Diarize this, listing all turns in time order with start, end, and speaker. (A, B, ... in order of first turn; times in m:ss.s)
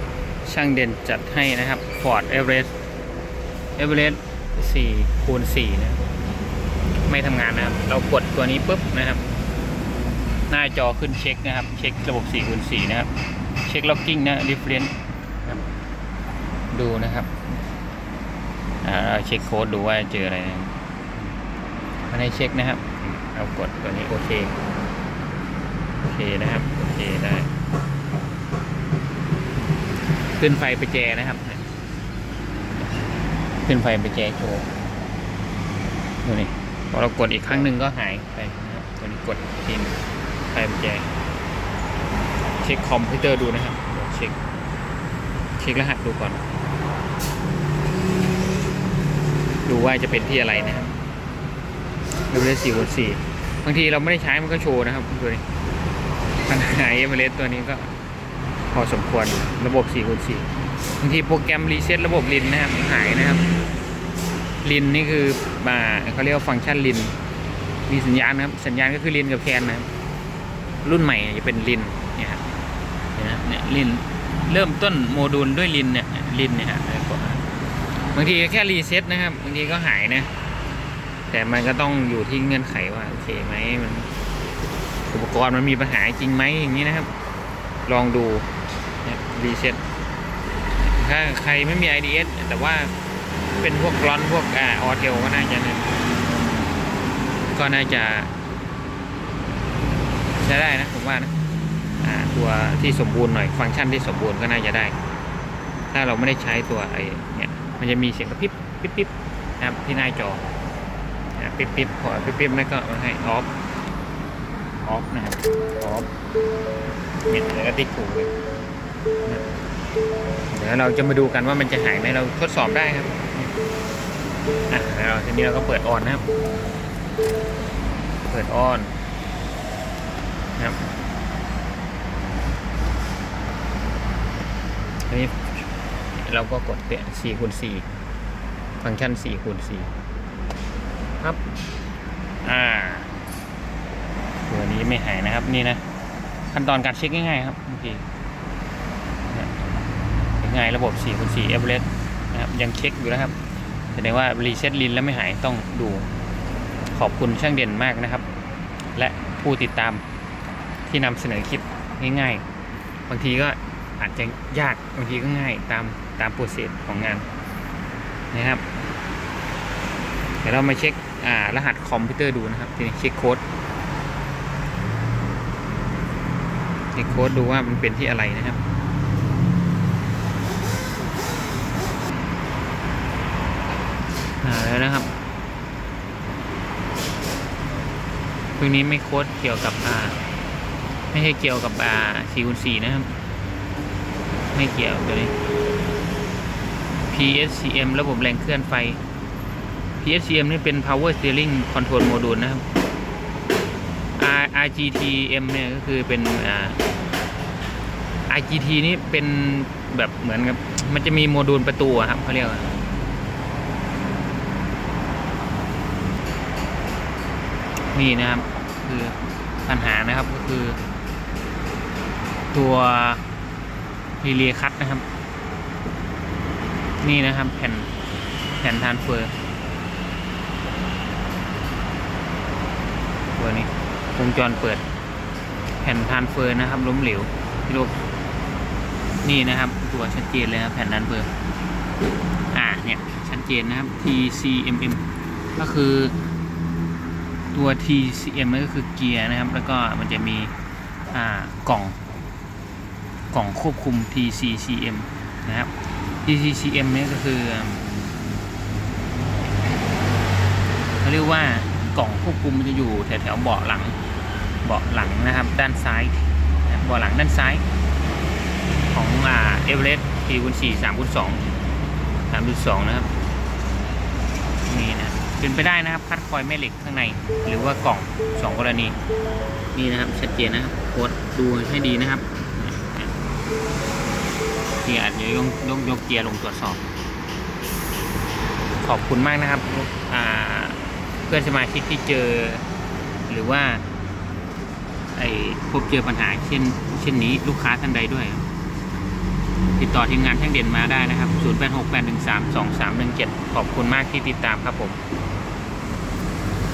0:00.4-0:02.7 A
0:03.8-0:06.0 A
0:07.0-0:09.2 A
0:10.5-0:13.1 A
0:13.6-0:15.6 A
0:16.7-0:17.3 A
0:18.8-0:21.4 A
0:22.1-0:24.5 A
0:26.0-0:27.5 A
0:30.4-0:31.6 A
0:32.8-0:33.1 A
0:33.6-0:34.6 A
0:36.2-0:40.0 A
0:40.5-0:41.1 A
0:42.6-0:44.4 A
0:45.6-0:46.4 A
0:49.6-0:50.9 A
0:52.3-0:55.4 A
0:56.5-0:57.9 A
0:58.7-1:00.5 A
1:01.0-1:03.4 A
1:04.6-1:07.1 A
1:07.9-1:09.9 A
1:10.8-1:12.4 A
1:13.2-1:17.4 A
1:18.1-1:20.3 A
1:21.3-1:24.1 A
1:25.1-1:27.1 A
1:27.8-1:28.5 A
1:29.0-1:29.8 A
1:30.8-1:32.9 A
1:33.6-1:35.9 A
1:37.5-1:38.3 A
1:40.4-1:41.3 A
1:42.0-1:44.9 A
1:45.9-1:50.4 A
1:51.4-1:53.5 A
1:54.8-1:56.1 A
1:57.3-1:58.3 A
2:00.5-2:03.5 A
2:04.7-2:06.2 A
2:08.2-2:08.9 A
2:10.6-2:10.9 A
2:15.1-2:15.5 A
2:16.2-2:17.9 A
2:18.8-2:19.9 A
2:22.4-2:23.1 A
2:24.5-2:25.8 A
2:26.5-2:28.1 A
2:29.3-2:29.6 A
2:30.4-2:33.4 A
2:33.9-2:36.1 A
2:36.9-2:38.2 A
2:39.0-2:40.0 A
2:40.9-2:42.4 A
2:43.1-2:47.2 A
2:48.3-2:48.6 A
2:50.4-2:53.4 A
2:57.0-2:58.6 A
3:04.4-3:05.1 A
3:08.6-3:10.2 A
3:11.1-3:13.1 A
3:14.5-3:15.3 A
3:17.1-3:19.0 A
3:20.0-3:22.6 A
3:24.2-3:26.8 A
3:28.3-3:32.7 A
3:37.9-3:40.8 A
3:42.5-3:43.2 A
3:44.2-3:45.0 A
3:47.0-3:47.9 A
3:48.6-3:49.3 A
3:53.4-3:54.8 A
3:55.8-3:58.0 A
3:59.2-4:01.3 A
4:02.5-4:05.0 A
4:05.6-4:06.2 A
4:07.5-4:10.5 A
4:11.1-4:12.0 A
4:13.3-4:15.7 A
4:16.2-4:17.9 A
4:21.0-4:24.0 A
4:24.6-4:27.6 A
4:28.9-4:31.4 A
4:32.3-4:33.1 A
4:34.7-4:39.0 A
4:39.7-4:43.1 A
4:44.8-4:46.8 A
4:48.7-4:52.6 A
4:53.3-4:53.8 A
4:55.1-4:58.4 A
4:59.8-5:05.0 A